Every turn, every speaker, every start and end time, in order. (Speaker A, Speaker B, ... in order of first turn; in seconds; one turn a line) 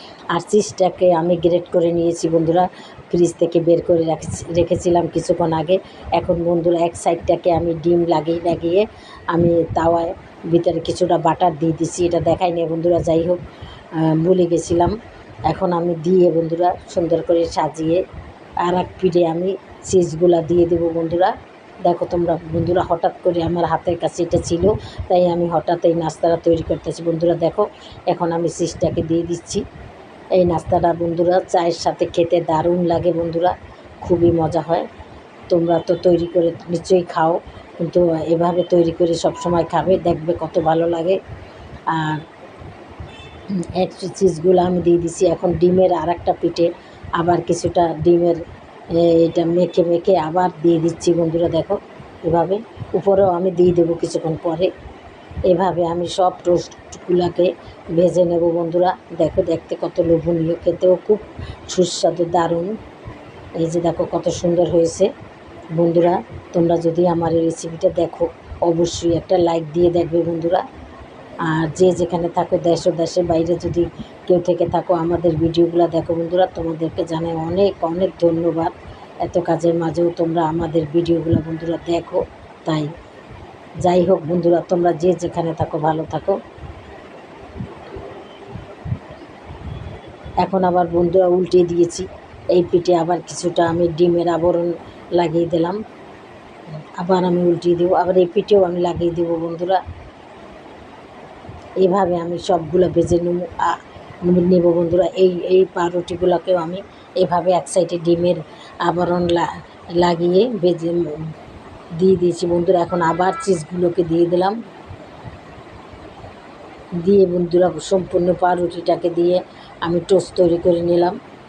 Speaker A: 0.3-18.0
Speaker A: 18.6-29.6
Speaker A: 30.3-34.9
Speaker A: 35.5-41.2
Speaker A: 41.9-42.2
Speaker A: 43.5-54.7
Speaker A: 55.5-62.7
Speaker A: 63.6-65.1
Speaker A: 65.7-70.6
Speaker A: 71.4-82.9
Speaker A: 83.8-86.4
Speaker A: 90.4-95.8
Speaker A: 97.0-99.8
Speaker A: 101.8-111.3
Speaker A: 112.0-114.6
Speaker A: 117.0-121.2